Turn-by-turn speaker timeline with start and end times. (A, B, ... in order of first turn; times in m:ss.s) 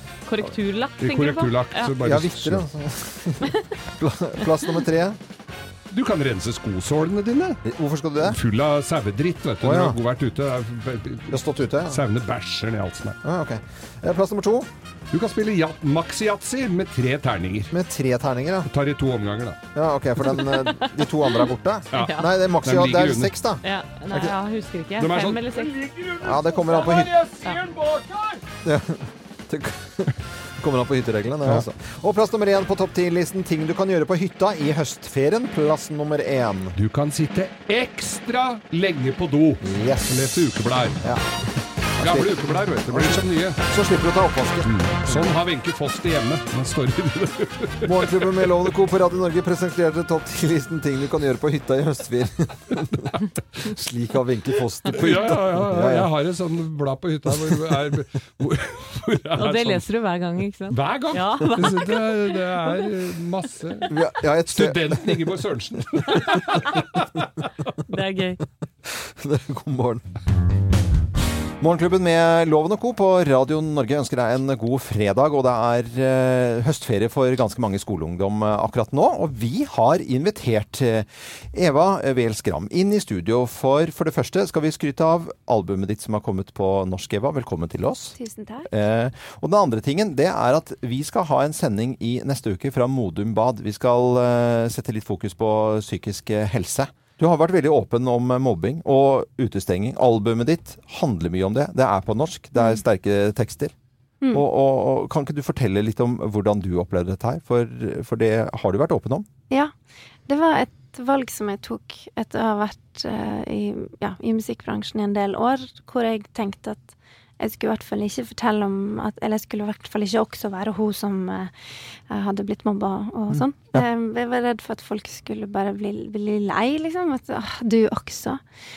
0:00.3-0:02.0 A
0:01.0-0:02.7 B
0:02.0-0:05.2 C
0:05.9-0:07.6 B
0:07.6-0:08.4 C
0:08.2-0:13.2 B
0:09.6-0:10.0 C
0:11.3-0:12.0 C
0:13.2-0:14.7 C
0:15.1-0:17.7 B
0:17.7-0:18.7 C
0:18.7-0:19.6 B
0:19.8-0:24.3 C
0:20.3-0:22.3 A
0:21.9-0:23.4 B
0:23.6-0:25.9 A
0:25.0-0:28.4 B
0:26.2-0:27.1 C
0:28.6-0:36.8 C
0:36.8-0:41.0 B
0:39.6-0:40.4 C
0:42.0-0:42.4 C
0:42.0-0:43.6 B
0:42.9-0:45.3 C
0:44.6-0:48.4 B
0:47.8-0:56.1 C
0:54.9-0:59.8 B
0:59.4-1:02.9 A
1:00.7-1:07.5 B
1:03.9-1:05.4 C
1:07.9-1:08.4 A
1:09.1-1:10.0 C
1:11.6-1:28.2 C
1:28.2-1:28.7 D
1:28.7-1:43.7 C
1:44.3-1:49.3 C
1:50.3-2:01.5 D
2:02.1-2:08.4 D
2:03.3-2:03.8 C